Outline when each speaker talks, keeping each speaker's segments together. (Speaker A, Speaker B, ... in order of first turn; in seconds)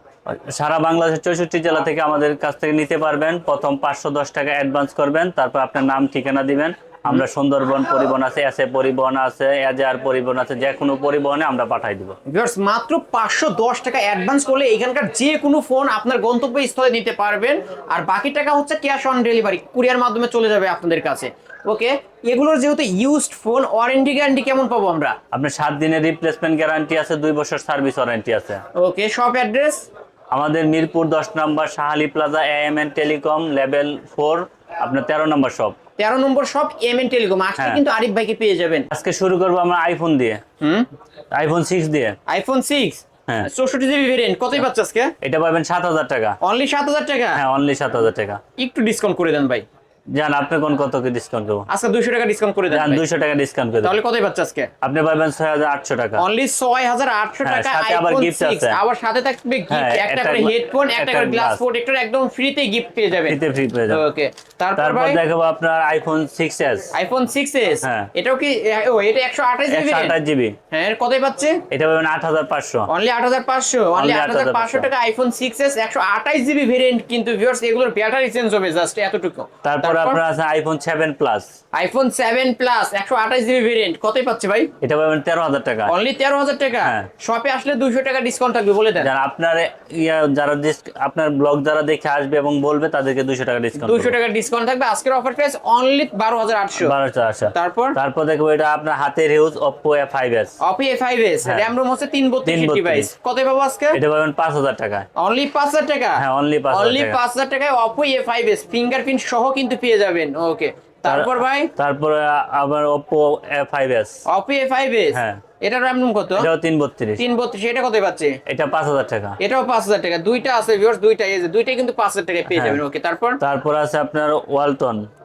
Speaker A: 0.3-12.2, 25.3-28.6, 30.3-35.8, 38.9-40.4, 41.3-42.2, 45.2-46.4, 47.4-48.4, 50.1-51.7, 52.7-54.0, 54.8-56.2, 57.4-58.8, 59.7-61.6, 63.1-64.0, 64.8-66.9, 67.8-68.1, 69.7-70.6, 71.7-72.9, 74.0-74.9, 79.6-81.5, 84.8-85.9, 86.8-87.1, 89.0-94.2, 96.8-100.6, 101.5-101.7, 102.5-103.1, 103.9-105.1, 106.2-107.2, 111.1-114.2, 115.1-115.4, 116.4-117.2, 118.5-119.4, 122.5-122.8, 123.4-125.1
Speaker B: 12.3-25.1, 28.8-29.9, 36.0-38.9, 40.6-40.9, 42.3-45.1, 46.4-47.4, 48.6-49.7, 51.7-53.0, 53.8-54.7, 56.2-65.2, 66.9-70.2, 70.7-71.6, 72.9-80.2, 81.7-84.7, 85.9-89.1, 93.8-96.9, 97.5-98.0, 100.6-104.0, 105.2-111.7, 114.3-116.5, 117.2-118.4, 119.4-123.4